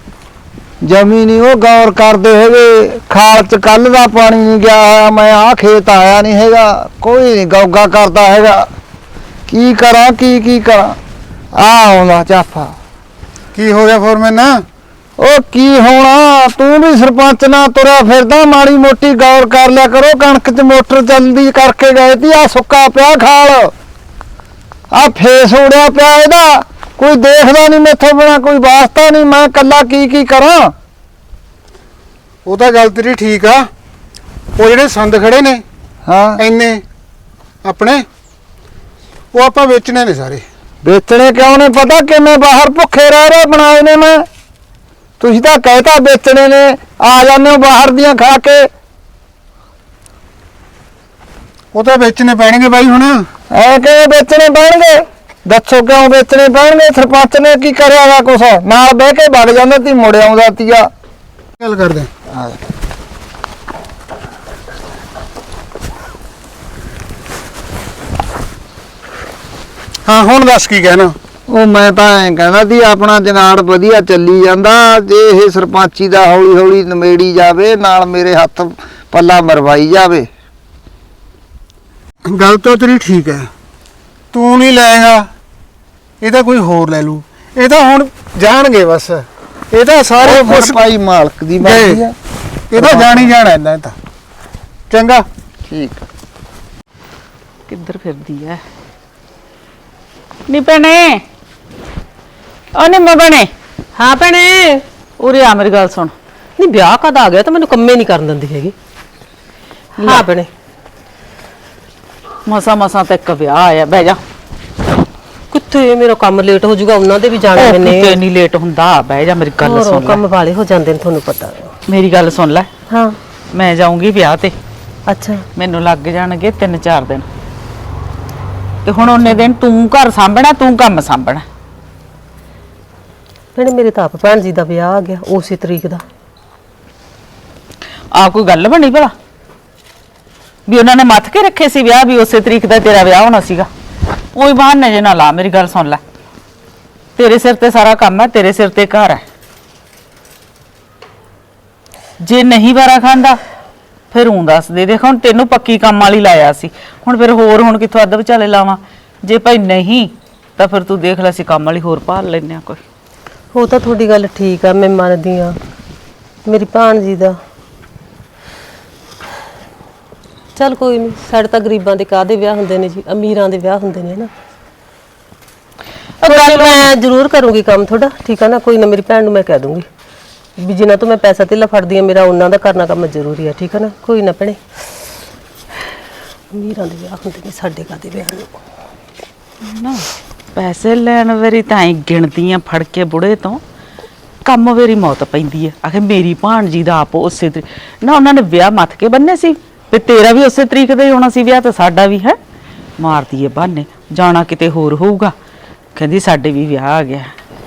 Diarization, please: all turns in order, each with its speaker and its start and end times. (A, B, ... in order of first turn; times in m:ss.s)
0:00.8-0:08.7 A
0:09.5-0:11.0 A
0:11.6-0:12.7 A
0:13.6-0:14.6 B
0:15.2-0:23.7 A
0:24.9-0:30.7 A
0:32.4-0:33.6 B
0:34.6-0:35.6 B
0:36.0-0:36.4 A
0:36.4-0:36.8 B
0:37.6-0:38.0 B
0:39.3-0:40.4 B
0:40.8-0:44.2 A
0:45.2-0:48.7 A
0:51.7-0:53.2 B
0:53.5-1:00.9 A
1:01.6-1:02.1 B
1:02.3-1:02.6 A
1:10.0-1:11.1 B
1:11.5-1:20.3 A
1:22.2-1:23.5 B
1:24.3-1:25.2 B
1:26.2-1:30.8 B
1:30.2-1:32.1 A
1:31.6-1:32.0 B
1:32.7-1:33.9 B
1:32.8-1:33.3 A
1:34.9-1:35.2 B
1:35.7-1:36.0 A
1:37.7-1:38.6 C
1:40.5-1:41.2 C
1:42.7-1:43.5 C
1:44.0-1:44.8 D
1:45.2-1:46.1 C
1:46.6-1:48.7 D
1:50.0-1:50.5 D
1:52.4-1:54.2 C
1:55.5-1:58.2 D
1:57.5-2:00.2 C
1:59.6-2:01.7 D
2:01.9-2:02.7 C
2:02.9-2:03.2 D
2:03.5-2:04.6 C
2:05.1-2:05.4 D
2:05.6-2:07.2 C
2:08.8-2:11.4 C
2:13.6-2:16.0 D
2:18.1-2:19.1 C
2:20.7-2:23.7 C
2:24.3-2:26.0 C
2:27.2-2:29.2 C
2:32.2-2:33.4 C
2:34.1-2:42.8 C
2:43.5-2:45.6 D
2:46.5-2:47.4 D
2:50.6-2:54.3 D
2:56.2-2:56.9 C
2:56.2-2:59.8 D
3:00.6-3:04.6 D
3:06.5-3:08.5 D
3:09.6-3:13.6 C
3:14.4-3:22.4 C
3:23.0-3:25.3 C
3:26.0-3:27.3 C